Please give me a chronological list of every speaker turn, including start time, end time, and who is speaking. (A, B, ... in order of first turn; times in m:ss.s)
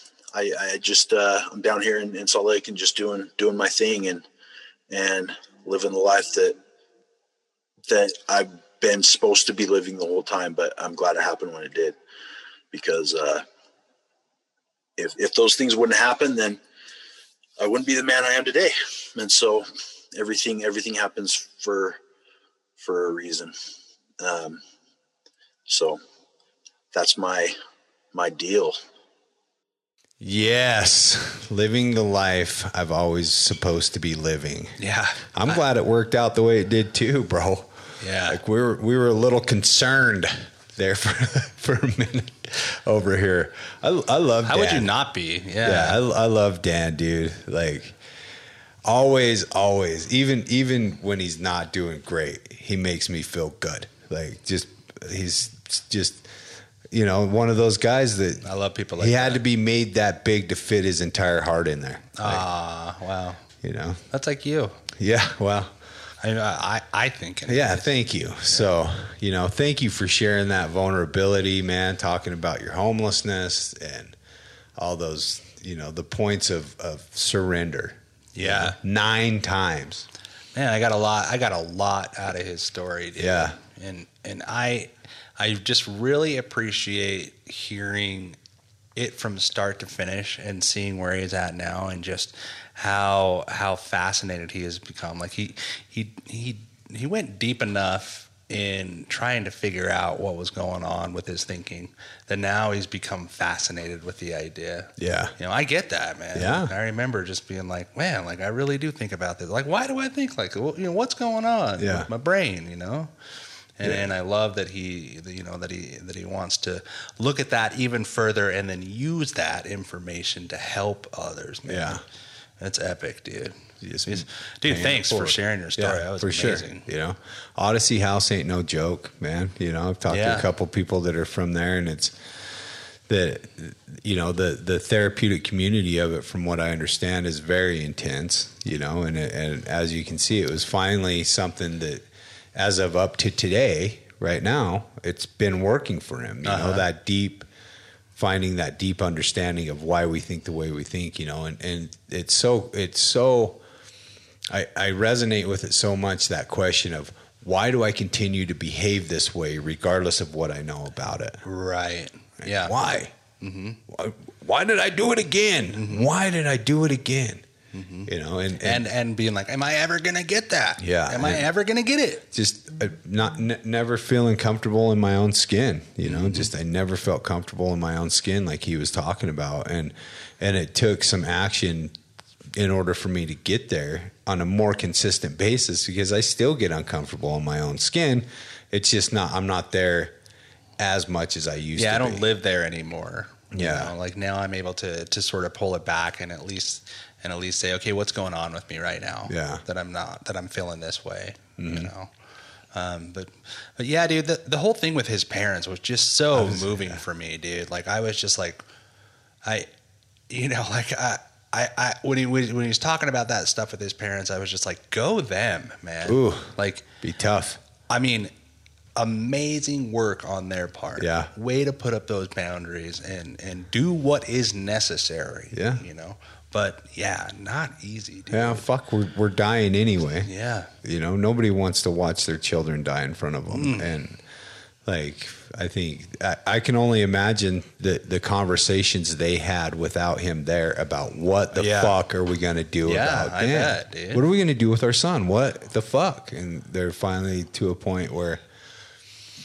0:00.3-0:04.2 A
0:04.9-0:06.6 A
0:07.9-0:12.0 A
0:12.7-0:13.4 A
0:15.0-0:16.6 A
0:17.6-0:22.0 A
0:22.8-0:23.5 A
0:24.2-0:24.6 A
0:25.7-0:26.0 A
0:26.9-0:27.6 A
0:28.1-0:28.8 A
0:30.2-0:34.8 B
0:34.8-0:35.6 C
0:35.4-0:44.9 B
0:38.0-0:38.4 C
0:44.4-0:46.0 C
0:45.6-0:48.0 B
0:48.8-0:56.3 B
0:56.9-1:02.4 B
0:58.4-0:59.4 C
1:02.2-1:03.4 C
1:03.6-1:04.0 B
1:04.1-1:04.8 C
1:05.0-1:05.7 B
1:06.2-1:07.9 C
1:07.5-1:14.2 B
1:14.8-1:20.1 B
1:18.4-1:18.8 C
1:20.6-1:28.4 C
1:23.2-1:23.6 B
1:29.0-1:53.1 C
1:45.0-1:45.4 B
1:46.3-1:46.7 B
1:51.8-1:52.1 B
1:53.8-2:02.0 C
2:01.7-2:02.0 B
2:02.6-2:06.9 C
2:03.8-2:12.2 B
2:10.1-2:10.5 C
2:13.1-2:27.5 B
2:26.4-2:26.9 C
2:28.2-2:33.6 B
2:34.5-2:41.4 B
2:41.4-2:42.8 C
2:42.4-2:43.1 B
2:43.4-2:43.8 C
2:43.9-2:47.4 B
2:45.7-2:46.0 C
2:47.7-2:52.2 C
2:48.1-2:48.8 B
2:50.8-2:51.5 B
2:52.3-3:02.0 B
2:56.0-2:56.5 C
3:02.6-3:10.1 B
3:10.8-3:12.2 B
3:11.8-3:22.1 C
3:13.5-3:13.9 B
3:19.3-3:19.6 B
3:21.6-3:21.9 B
3:22.7-3:28.6 C
3:26.4-3:27.0 B
3:30.3-3:36.9 C
3:36.0-3:37.6 B
3:37.9-3:38.3 C
3:39.0-3:48.7 C
3:41.0-3:41.3 B
3:45.5-3:45.8 B
3:48.3-3:50.3 B
3:50.3-3:50.7 C
3:50.8-3:54.2 B
3:53.5-3:53.9 C
3:54.8-4:08.4 B
4:01.5-4:02.0 C
4:02.8-4:04.2 C